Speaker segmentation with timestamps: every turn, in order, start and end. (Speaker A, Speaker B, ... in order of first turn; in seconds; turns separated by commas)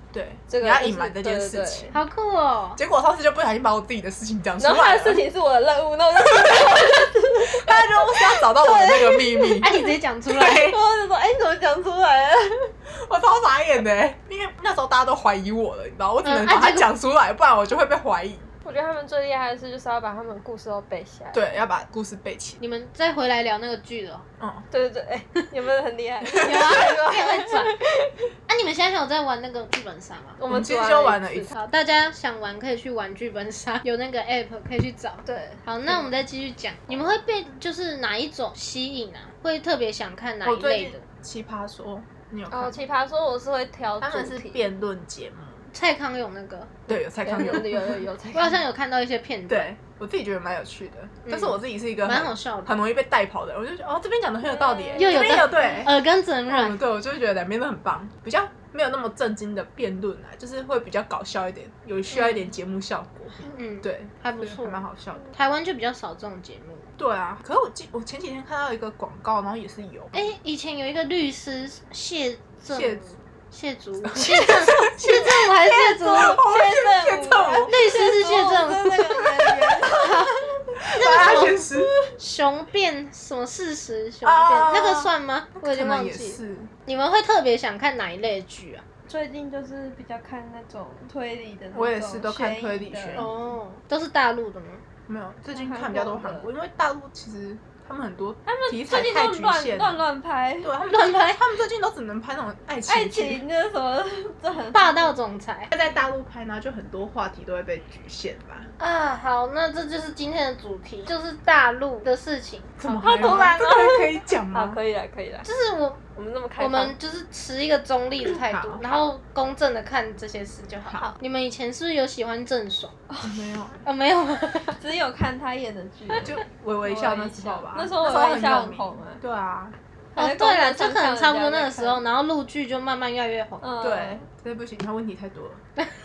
Speaker A: 0.1-1.9, Speaker B: 0.5-1.9, Speaker C: 1.9-2.8, Speaker A: 2.8-5.2, Speaker B: 4.6-9.9, Speaker A: 6.2-9.7, Speaker C: 9.6-10.7, Speaker A: 10.3-10.8, Speaker B: 10.4-12.7, Speaker A: 12.9-18.5, Speaker C: 16.2-16.9, Speaker B: 18.6-21.5, Speaker A: 21.3-22.6, Speaker C: 22.6-24.2, Speaker A: 24.4-24.6, Speaker B: 24.7-28.3, Speaker A: 26.3-26.7, Speaker C: 26.4-27.8, Speaker C: 28.5-30.4, Speaker B: 30.4-31.5, Speaker A: 30.5-31.5, Speaker C: 31.5-41.0, Speaker B: 35.2-36.0, Speaker A: 40.4-42.8, Speaker B: 42.5-44.7, Speaker A: 44.0-45.7, Speaker C: 45.7-46.9, Speaker A: 46.9-48.0, Speaker B: 47.2-48.6, Speaker C: 48.3-49.7, Speaker A: 49.5-55.9, Speaker C: 51.3-52.8, Speaker B: 54.5-55.9, Speaker C: 55.0-56.8, Speaker A: 56.5-65.3, Speaker C: 62.1-62.5, Speaker C: 63.5-64.8, Speaker C: 65.3-66.9, Speaker A: 67.0-70.3, Speaker C: 70.1-76.4, Speaker A: 72.7-73.1, Speaker A: 74.0-77.7, Speaker B: 74.2-74.7, Speaker B: 76.0-82.1, Speaker C: 77.7-80.4, Speaker A: 80.9-81.9, Speaker C: 80.9-81.6, Speaker C: 82.2-88.8, Speaker A: 84.2-86.7, Speaker B: 89.1-93.2, Speaker A: 91.7-93.3, Speaker C: 93.1-94.8, Speaker A: 95.1-100.0, Speaker B: 95.5-96.5, Speaker B: 98.5-100.7, Speaker A: 100.6-103.4, Speaker C: 100.8-101.4, Speaker B: 102.9-105.2, Speaker C: 104.7-105.7, Speaker A: 105.7-108.7, Speaker C: 108.8-113.5, Speaker A: 112.8-114.8, Speaker B: 112.9-115.5, Speaker C: 115.4-116.0, Speaker B: 116.1-117.0, Speaker C: 116.6-122.9, Speaker A: 118.4-118.8, Speaker B: 123.1-123.3, Speaker A: 123.2-123.8, Speaker C: 123.8-124.8, Speaker B: 124.8-129.2, Speaker A: 126.2-129.8, Speaker B: 130.1-132.0, Speaker C: 130.2-133.6, Speaker B: 133.6-134.2, Speaker A: 133.8-135.6